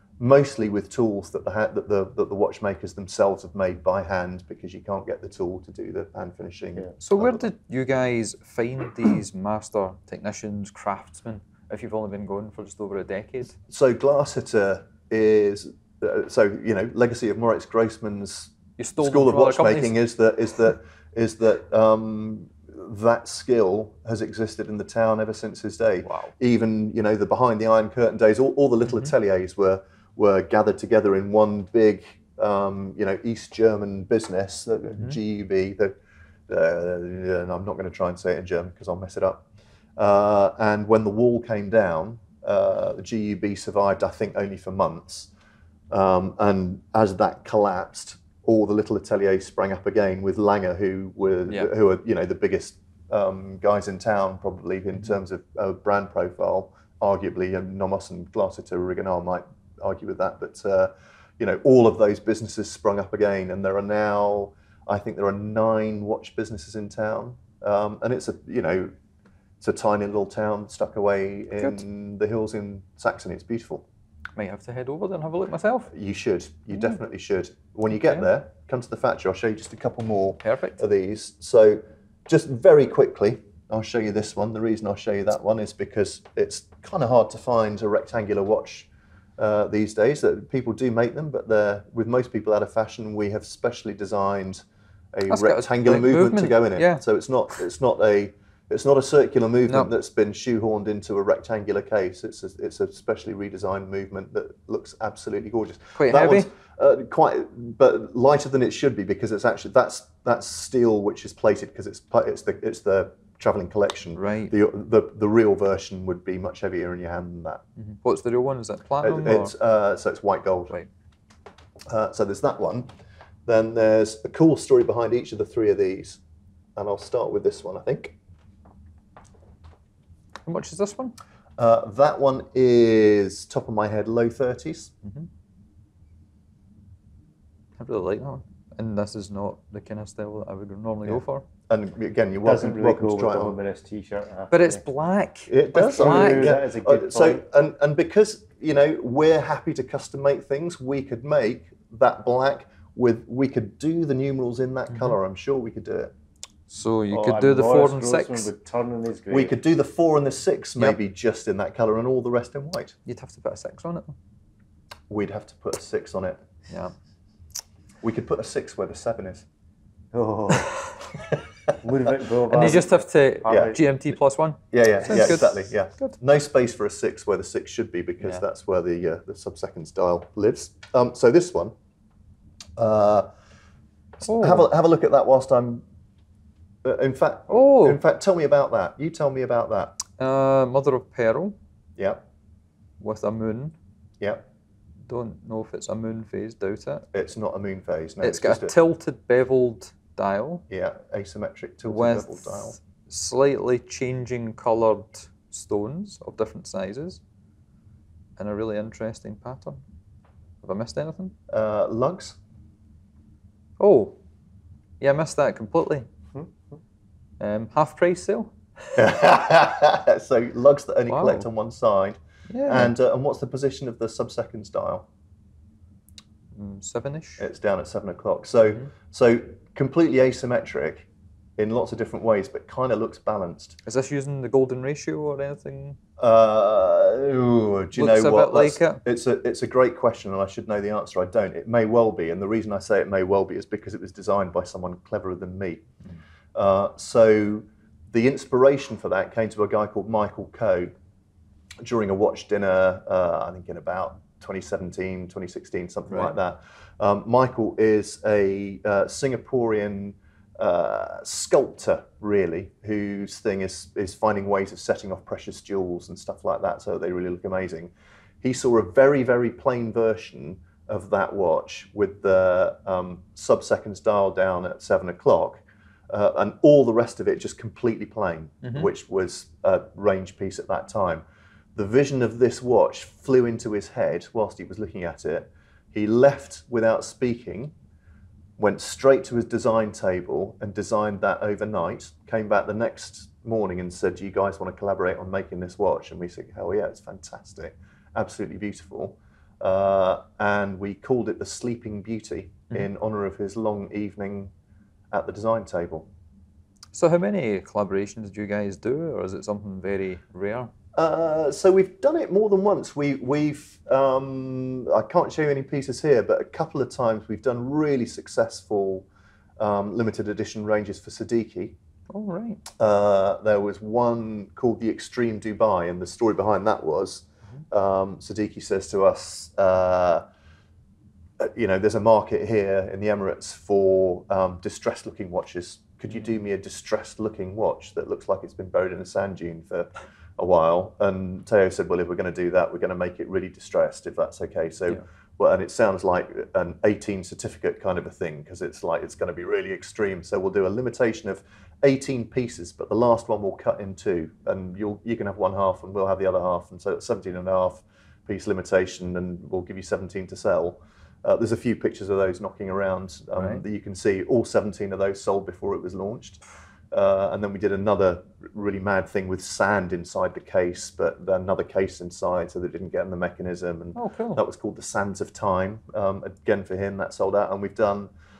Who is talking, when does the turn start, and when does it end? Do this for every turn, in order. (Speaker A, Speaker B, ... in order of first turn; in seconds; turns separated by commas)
Speaker A: 0.2-7.5, Speaker B: 7.0-13.6, Speaker A: 13.7-35.9, Speaker B: 18.8-19.9, Speaker B: 26.0-26.3, Speaker A: 36.5-45.3, Speaker A: 45.9-68.9, Speaker A: 69.6-73.8, Speaker B: 74.3-75.9, Speaker A: 75.9-117.6, Speaker B: 80.4-80.8, Speaker B: 95.3-97.0, Speaker B: 106.0-106.5, Speaker B: 114.2-114.5, Speaker B: 117.8-119.5, Speaker A: 119.0-120.7, Speaker A: 121.9-122.9, Speaker A: 123.5-126.2, Speaker A: 126.8-128.2, Speaker B: 130.4-131.2, Speaker A: 131.6-134.9, Speaker B: 137.8-141.4, Speaker A: 141.0-143.5, Speaker C: 142.4-144.8, Speaker B: 144.5-146.6, Speaker A: 145.5-156.1, Speaker C: 145.9-147.4, Speaker B: 154.9-155.2, Speaker B: 156.7-158.5, Speaker C: 157.1-159.6, Speaker A: 159.3-162.9, Speaker B: 163.1-164.1, Speaker A: 165.1-166.4, Speaker B: 166.7-166.9, Speaker A: 168.0-169.4, Speaker C: 170.1-170.8, Speaker C: 171.8-173.8, Speaker B: 172.5-176.1, Speaker A: 173.4-173.7, Speaker A: 174.7-181.7, Speaker A: 182.8-183.3, Speaker A: 184.2-185.8, Speaker B: 184.2-184.7, Speaker A: 186.8-190.0, Speaker B: 187.5-188.0, Speaker B: 190.2-191.6, Speaker A: 192.0-192.2, Speaker B: 193.0-193.7, Speaker B: 195.1-197.0, Speaker A: 197.1-198.8, Speaker B: 198.2-200.6, Speaker A: 200.7-202.8, Speaker B: 201.9-207.2, Speaker B: 208.4-209.8, Speaker B: 210.6-211.3, Speaker A: 211.5-212.4, Speaker B: 213.8-214.2, Speaker B: 215.0-216.1, Speaker B: 217.4-218.9, Speaker A: 218.9-225.1, Speaker B: 221.1-221.5, Speaker B: 222.5-222.9, Speaker B: 226.5-227.4, Speaker A: 227.4-233.8, Speaker B: 233.8-236.0, Speaker A: 236.2-245.8, Speaker B: 237.9-239.0, Speaker A: 246.5-250.9, Speaker A: 251.8-287.7, Speaker B: 278.6-278.9, Speaker A: 288.6-304.5, Speaker A: 305.1-306.1, Speaker B: 306.9-310.7, Speaker A: 310.9-319.1, Speaker A: 319.6-321.8, Speaker B: 322.1-322.6, Speaker A: 322.8-330.2, Speaker A: 331.4-378.1, Speaker B: 363.4-363.6, Speaker B: 373.9-374.4